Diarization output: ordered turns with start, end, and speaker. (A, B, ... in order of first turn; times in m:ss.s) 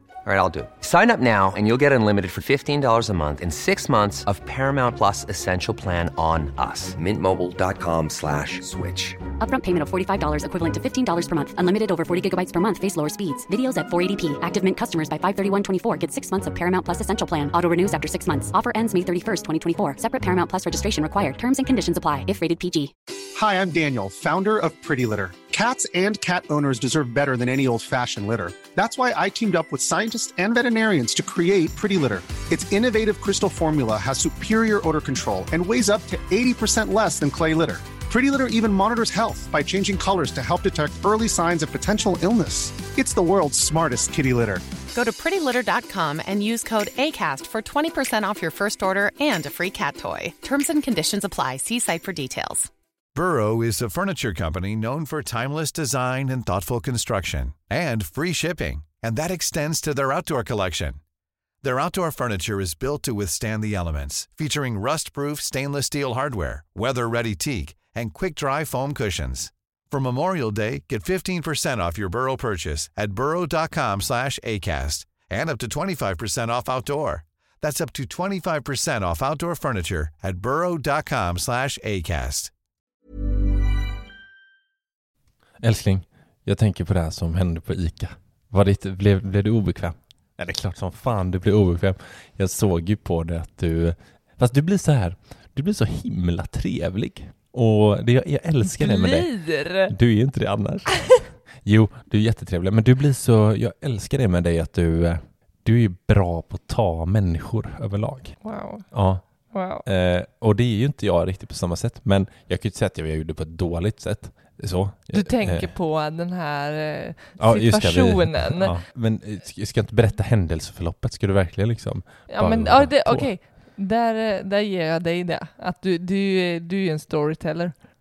0:00.2-0:09.2 A
0:09.4-0:22.9 B
0:23.4-0:44.6 C
0:44.9-0:52.7 D
0:53.2-1:01.0 E
1:01.6-1:22.5 E
1:25.6-1:48.4 F
1:38.6-1:39.9 G
1:48.4-1:48.8 G
1:48.9-1:49.2 F
1:49.5-1:49.8 G
1:49.8-1:55.7 F
1:55.1-1:58.8 G
1:57.4-2:03.3 F
2:02.3-2:07.7 G